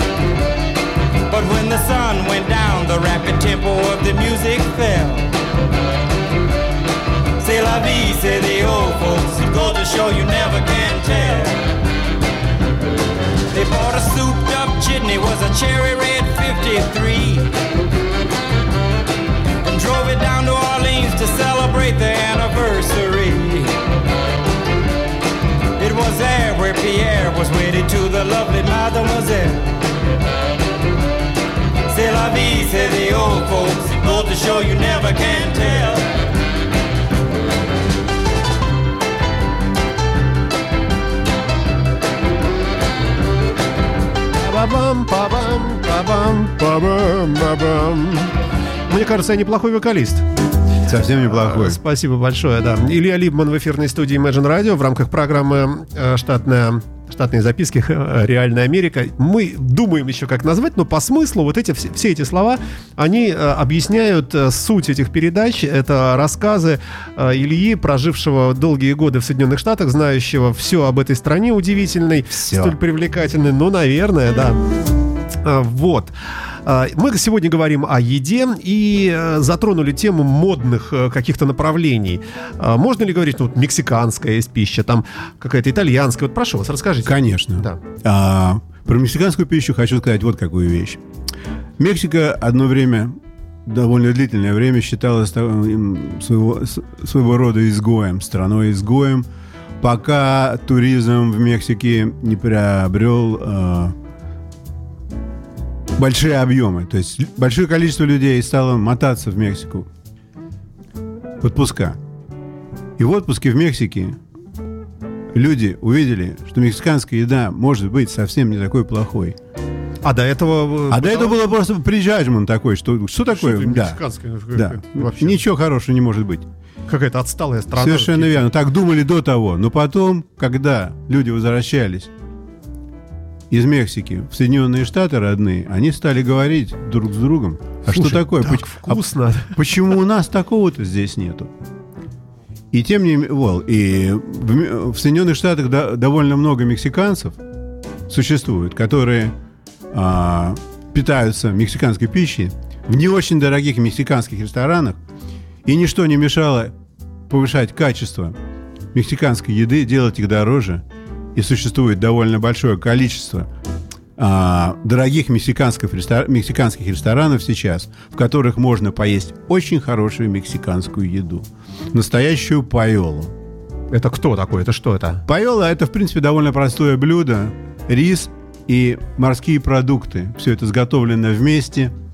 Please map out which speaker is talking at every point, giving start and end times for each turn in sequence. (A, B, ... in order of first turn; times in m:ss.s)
0:01.3-0:05.3 A
0:07.4-0:11.6 A
0:13.5-0:17.5 A
0:19.6-0:23.8 A
0:25.8-0:29.9 A
0:31.9-0:36.1 A
0:44.4-0:48.3 B
0:48.9-0:50.2 B
0:50.8-0:51.8 C
0:51.2-1:14.6 B
1:12.3-1:12.7 C
1:15.4-1:16.1 B
1:16.6-1:27.8 B
1:27.0-1:31.0 C
1:31.8-1:39.3 C
1:39.8-1:43.9 C
1:46.0-1:49.9 C
1:51.4-1:52.0 C
1:53.0-1:54.2 C
1:55.3-1:59.4 C
2:00.0-2:01.4 B
2:00.9-2:04.0 C
2:03.3-2:05.4 B
2:04.5-2:06.5 C
2:06.9-2:08.4 B
2:07.7-2:12.1 C
2:13.5-2:19.0 C
2:17.9-2:19.6 B
2:19.5-2:21.5 C
2:22.7-2:27.4 C
2:28.1-2:29.3 C
2:29.9-2:35.0 C
2:35.6-2:36.7 C
2:37.3-2:38.4 C
2:38.9-2:40.8 C
2:41.3-2:43.5 C
2:44.2-2:53.3 C
2:53.9-2:55.2 B
2:55.2-3:01.9 C